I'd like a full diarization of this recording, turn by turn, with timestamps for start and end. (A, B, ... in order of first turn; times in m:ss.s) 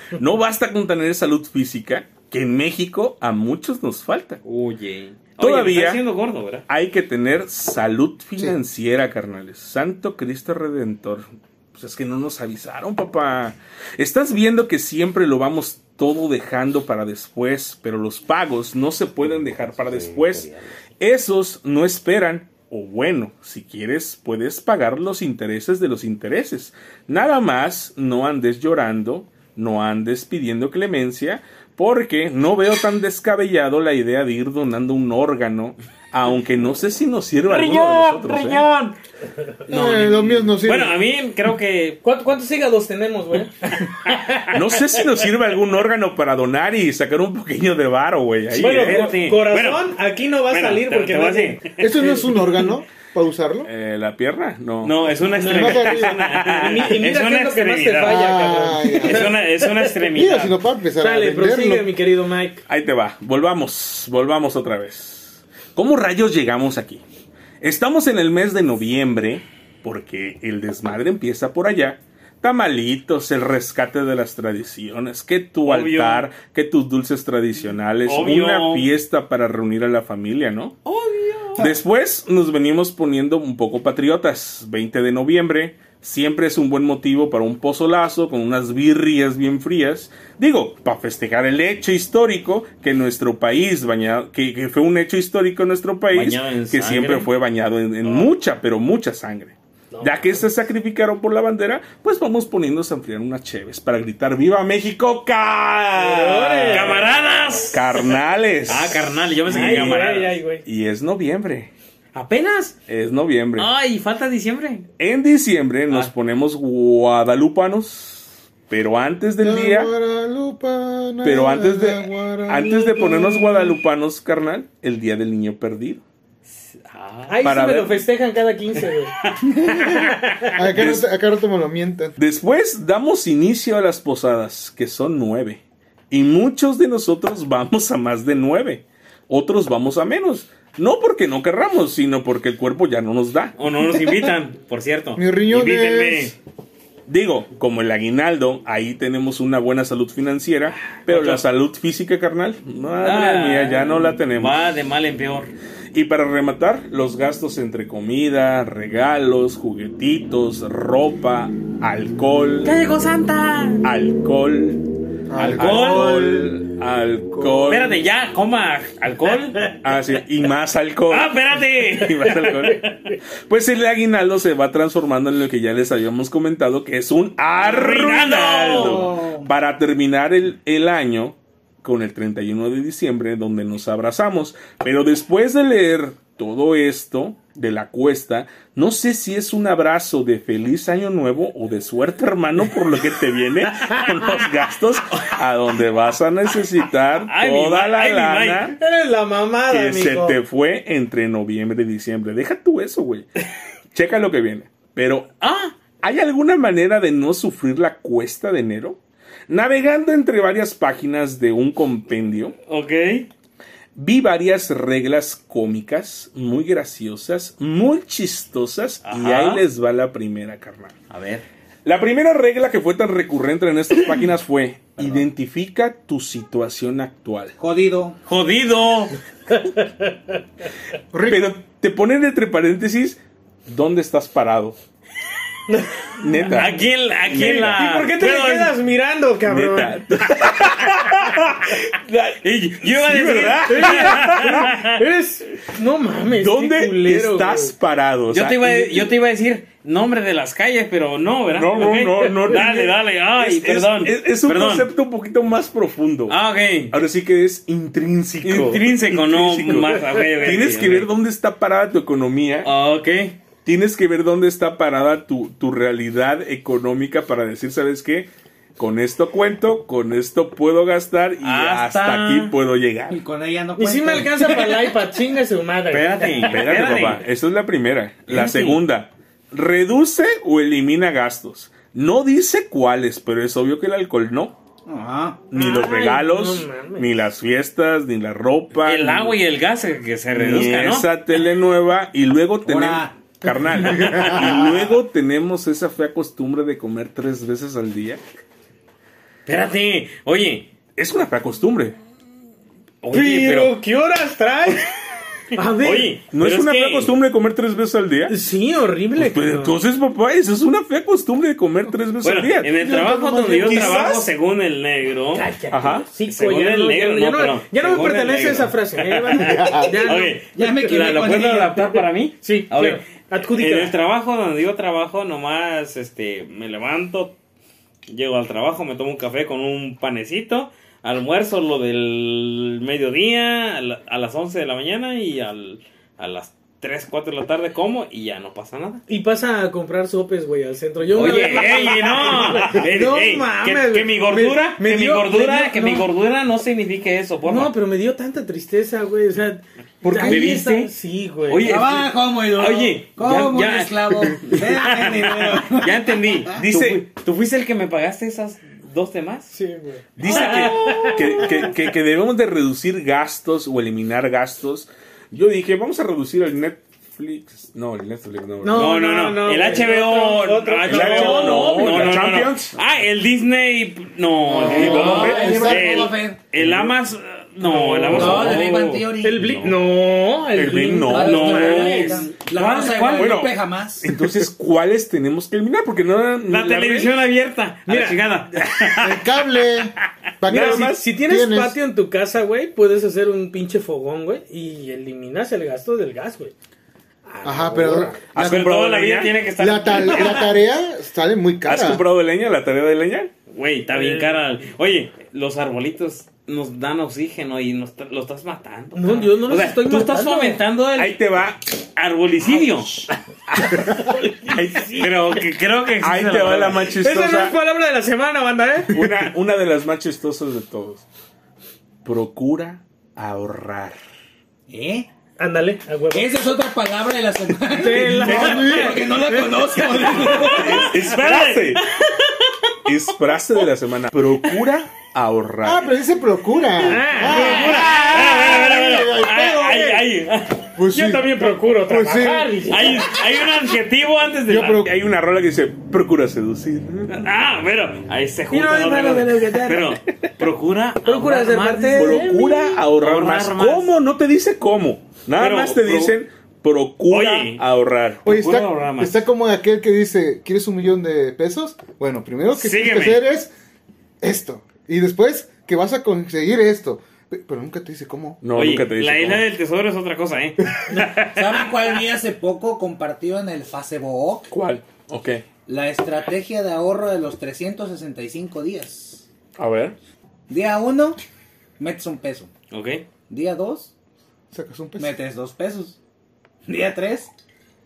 0:00.2-0:04.4 A
0:04.4-0:06.6 B
0:05.4-0:06.0 A
0:06.7-0:38.6 A
0:19.7-0:20.7 B
0:37.5-0:39.0 B
0:39.7-0:42.0 B
0:39.7-0:41.0 C
0:42.0-0:44.7 D
0:44.5-0:49.2 A
0:48.5-0:49.9 B
0:48.5-0:52.3 D
0:50.5-0:52.0 B
0:51.8-0:53.7 C
0:53.6-0:55.1 A
0:54.8-0:58.2 B
0:55.4-1:00.0 D
0:55.5-0:56.3 C
0:58.0-0:59.4 C
0:59.0-1:00.6 B
1:00.1-1:01.9 C
1:01.0-1:02.6 D
1:02.7-1:07.0 A
1:07.6-1:20.8 A
1:15.6-1:16.3 B
1:18.0-1:18.9 B
1:20.8-1:21.8 B
1:21.6-1:47.0 A
1:36.1-1:37.3 B
1:38.0-1:38.3 B
1:39.9-1:40.3 D
1:46.0-1:47.1 D
1:46.7-1:48.1 B
1:47.7-1:50.1 A
1:48.7-1:50.4 B
1:49.5-1:50.6 D
1:50.6-1:51.7 A
1:52.1-1:52.7 B
1:52.9-1:53.7 A
1:53.6-1:54.9 B
1:55.0-1:59.9 A
1:59.4-2:03.7 C
2:01.2-2:06.0 A
2:06.8-2:07.4 B
2:07.3-2:10.5 D
2:07.4-2:08.0 A
2:09.2-2:10.1 B
2:10.5-2:12.1 C
2:10.7-2:11.0 A
2:12.2-2:23.6 A
2:23.6-2:26.3 B
2:25.2-2:26.3 C
2:27.1-2:34.6 A
2:31.0-2:31.4 B
2:33.0-2:35.5 B
2:35.9-2:42.7 A
2:42.6-2:43.8 B
2:43.8-2:48.0 A
2:45.3-2:46.6 C
2:45.5-2:46.3 B
2:47.3-2:47.8 C
2:47.7-2:49.7 B
2:49.8-2:52.9 A
2:51.1-2:52.7 B
2:52.8-2:53.2 D
2:53.5-3:18.8 A
2:57.6-2:59.2 B
2:58.7-2:59.5 E
3:17.3-3:18.7 B
3:18.8-3:20.4 D
3:19.7-3:23.3 A
3:23.9-3:25.3 A
3:25.4-3:25.7 B
3:26.0-3:29.0 A
3:29.5-3:32.6 A
3:32.7-3:33.3 B
3:33.9-3:41.0 A
3:39.0-3:39.6 B
3:41.1-3:41.4 B
3:41.8-3:47.5 A
3:47.6-3:48.2 E
3:48.2-3:49.2 B
3:49.6-3:50.1 D
3:51.1-3:51.5 C
3:51.2-3:54.8 A
3:55.7-3:56.4 D
3:56.2-3:56.8 A
3:56.5-3:58.7 B
3:57.3-4:00.4 D
3:59.4-4:04.8 A
4:02.4-4:05.0 B
4:03.7-4:07.7 D
4:06.3-4:09.1 A
4:08.3-4:14.9 B
4:11.5-4:16.4 A
4:16.3-4:16.9 B
4:16.9-4:22.7 A
4:18.4-4:21.1 B
4:22.6-4:23.4 B
4:23.6-4:33.2 A
4:31.4-4:32.6 B
4:33.1-4:35.0 E
4:33.8-4:36.6 D
4:35.9-4:37.2 B
4:36.4-4:44.5 A
4:38.3-4:38.8 B
4:44.9-4:45.4 E
4:45.5-4:49.4 A
4:45.5-4:47.2 D
4:48.8-4:51.1 B
4:50.3-4:58.2 A
4:52.6-4:53.2 E
4:59.4-5:00.7 B
5:01.0-5:02.0 A
5:03.0-5:03.8 B
5:03.1-5:04.8 D
5:05.5-5:06.2 D
5:05.5-5:07.1 B
5:06.3-5:08.4 A
5:08.3-5:09.8 D
5:09.2-5:14.3 A
5:12.2-5:15.5 B
5:12.8-5:14.1 D
5:15.3-5:23.9 D
5:15.7-5:16.1 A
5:16.2-5:27.4 B
5:19.4-5:19.9 C
5:20.5-5:21.8 E
5:28.1-5:39.0 B
5:39.1-5:46.1 D
5:41.1-5:47.7 B
5:47.4-5:51.8 D
5:50.2-5:50.6 E
5:50.2-5:50.9 B
5:51.5-5:59.5 B
5:51.6-5:56.6 E
5:56.6-5:57.0 A
5:59.5-6:01.7 D
6:00.2-6:09.0 A
6:00.2-6:01.6 B
6:08.6-6:12.3 D
6:08.7-6:19.1 B
6:10.8-6:12.8 A
6:14.5-6:16.1 C
6:14.6-6:15.7 A
6:14.6-6:16.4 E
6:16.5-6:16.9 A
6:17.6-6:18.6 D
6:18.0-6:18.6 A
6:18.1-6:19.6 E
6:19.2-6:22.3 D
6:19.4-6:19.7 A
6:20.5-6:22.1 A
6:21.1-6:24.1 E
6:21.1-6:23.4 B
6:23.1-6:27.2 A
6:26.5-6:29.2 B
6:27.9-6:28.3 D
6:29.0-6:31.8 C
6:30.5-6:36.5 D
6:30.5-6:31.1 A
6:37.2-6:38.2 D
6:37.4-6:38.6 C
6:38.3-6:39.4 A
6:38.4-6:40.5 B
6:39.6-6:42.0 C
6:41.6-6:43.3 A
6:43.5-6:53.0 B
6:43.9-6:44.3 D
6:48.9-6:50.6 D
6:51.0-6:51.6 A
6:53.0-6:55.1 D
6:53.5-6:55.2 A
6:55.0-6:56.9 B
6:56.0-6:57.5 A
6:56.9-6:59.2 D
6:58.9-7:01.0 A
7:02.0-7:04.0 A
7:04.7-7:05.1 E
7:05.4-7:06.4 D
7:06.1-7:10.9 E
7:07.7-7:10.8 D
7:08.2-7:09.0 C
7:10.2-7:12.5 B
7:10.4-7:11.8 A
7:12.8-7:15.8 A
7:15.6-7:20.0 C
7:16.8-7:18.2 D
7:17.2-7:20.7 B
7:20.7-7:22.7 C
7:20.9-7:23.2 D
7:22.7-7:24.8 B
7:24.5-7:24.9 C
7:24.6-7:27.2 A
7:27.1-7:32.3 B
7:28.5-7:30.0 D
7:31.0-7:32.8 D
7:32.0-7:38.3 A
7:32.9-7:33.9 B
7:35.4-7:36.1 B
7:37.1-7:37.6 B
7:38.2-7:39.2 B
7:38.2-7:43.5 C
7:42.5-7:43.2 B
7:44.2-7:48.4 C
7:48.4-7:49.4 A
7:48.5-7:51.7 B
7:51.3-7:54.5 E
7:54.5-7:55.4 A
7:55.7-7:59.2 E
7:59.6-7:59.9 A
8:00.5-8:01.2 E
8:01.8-8:02.5 E
8:02.7-8:03.0 B
8:03.3-8:03.9 E
8:04.5-8:05.2 C
8:05.0-8:06.0 E
8:06.6-8:07.3 E